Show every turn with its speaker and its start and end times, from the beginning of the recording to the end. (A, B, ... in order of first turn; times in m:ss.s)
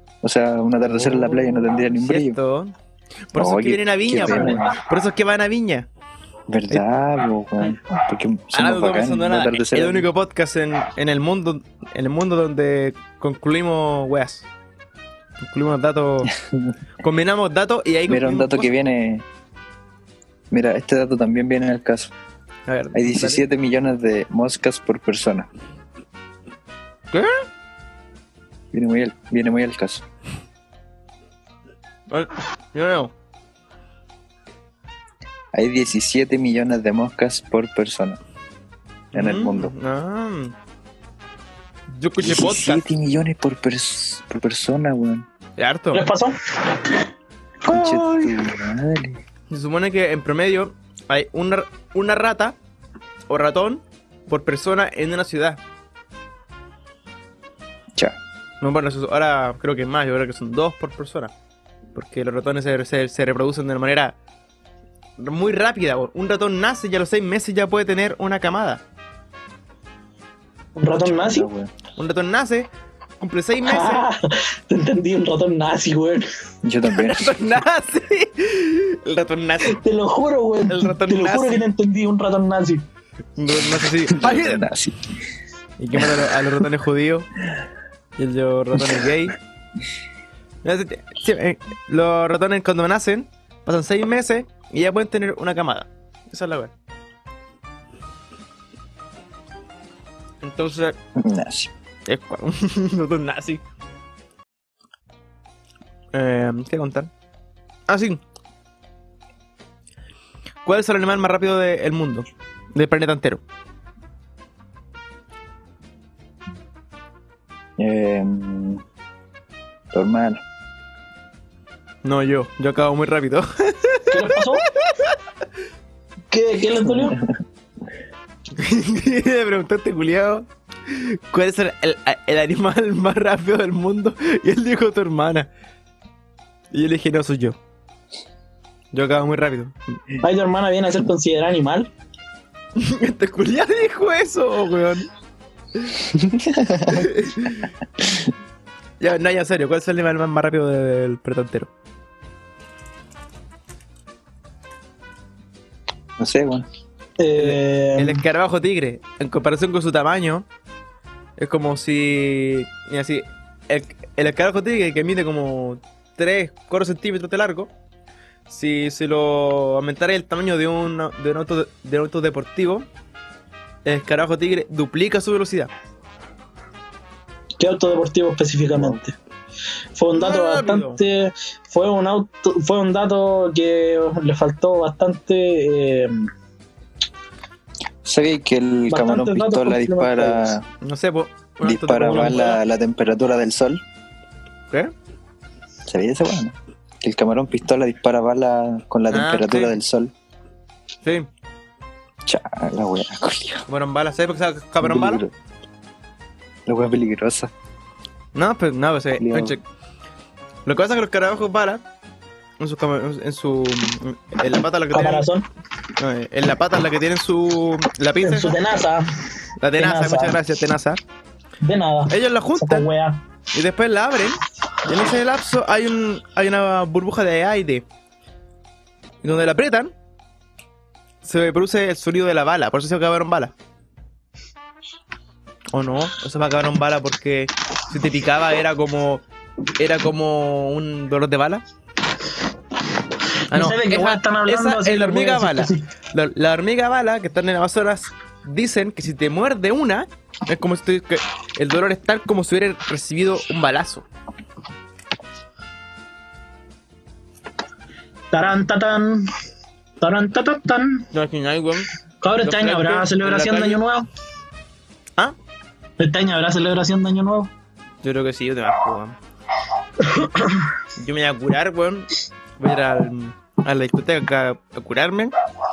0:00.2-0:02.4 A
0:00.8-0:02.7 B
0:03.3-0:05.9 B
0:03.3-0:04.8 A
0:06.5-0:10.1 A
0:08.5-0:14.5 B
0:15.4-0:16.3 B
0:16.2-0:16.7 A
0:17.0-0:18.7 B
0:18.1-0:19.2 A
0:20.5-0:22.1 A
0:22.7-0:23.4 B
0:22.9-0:25.5 A
0:27.1-0:27.4 B
0:28.7-0:30.0 A
0:32.1-0:33.1 B
0:35.5-0:38.2 A
0:39.1-0:39.7 A
0:39.1-0:40.5 B
0:41.9-0:42.8 B
0:42.2-0:45.2 A
0:45.6-0:46.0 B
0:45.9-0:46.4 C
0:47.7-0:48.3 C
0:47.7-0:49.2 A
0:49.5-0:52.6 B
0:53.3-0:55.6 B
0:58.6-1:01.3 B
1:01.9-1:04.1 B
1:05.2-1:08.8 B
1:10.8-1:11.5 C
1:10.9-1:11.7 A
1:12.0-1:12.7 B
1:13.2-1:14.0 B
1:13.6-1:16.2 C
1:16.6-1:17.3 A
1:16.9-1:19.8 B
1:19.6-1:22.8 C
1:20.7-1:21.6 B
1:23.4-1:24.6 B
1:24.1-1:25.2 A
1:25.8-1:27.3 B
1:25.9-1:26.3 A
1:28.2-1:29.3 B
1:28.8-1:29.0 A
1:30.6-1:36.7 B
1:40.4-1:41.0 B
1:41.2-1:41.7 A
1:42.1-1:43.6 B
1:46.1-1:47.1 B
1:47.9-1:48.2 B
1:50.6-1:53.4 B
1:57.8-1:58.8 A
1:59.9-2:00.4 A
2:02.0-2:05.2 B
2:04.1-2:04.6 C
2:06.3-2:07.2 C
2:06.8-2:07.4 A
2:08.6-2:15.5 B
2:16.7-2:17.6 B
2:18.9-2:19.7 B
2:20.2-2:21.9 C
2:22.8-2:25.1 B
2:26.1-2:27.1 A
2:26.9-2:27.7 B
2:29.0-2:31.7 B
2:36.2-2:36.6 A
2:37.2-2:38.2 C
2:37.4-2:40.4 B
2:41.4-2:47.7 B
2:48.5-2:52.9 B
2:53.8-2:55.7 B
2:57.6-2:59.1 C
2:58.7-2:59.0 A
3:00.0-3:06.3 C
3:00.1-3:01.0 B
3:08.0-3:10.6 A
3:08.9-3:10.6 C
3:10.8-3:12.6 B
3:11.6-3:13.8 A
3:15.8-3:20.1 A
3:19.1-3:19.7 B
3:22.2-3:23.6 A
3:23.7-3:25.2 B
3:24.8-3:25.3 A
3:26.6-3:27.5 A
3:28.3-3:29.6 B
3:29.2-3:29.6 A
3:30.6-3:31.8 B
3:32.6-3:35.3 B
3:34.9-3:35.4 C
3:36.0-3:38.6 B
3:38.2-3:39.0 C
3:39.6-3:41.0 B
3:39.8-3:40.4 C
3:41.6-3:43.2 C
3:42.1-3:42.9 B
3:43.5-3:47.8 B
3:49.2-3:49.9 B
3:51.2-3:53.5 B
3:55.7-3:59.2 B
3:59.8-4:01.6 B
4:03.5-4:05.8 C
4:03.5-4:14.0 B
4:18.3-4:19.3 C
4:20.0-4:21.0 C
4:21.1-4:21.9 B
4:22.2-4:24.1 C
4:22.4-4:23.8 B
4:26.0-4:27.5 C
4:28.0-4:29.2 B
4:30.0-4:30.6 C
4:31.0-4:35.3 B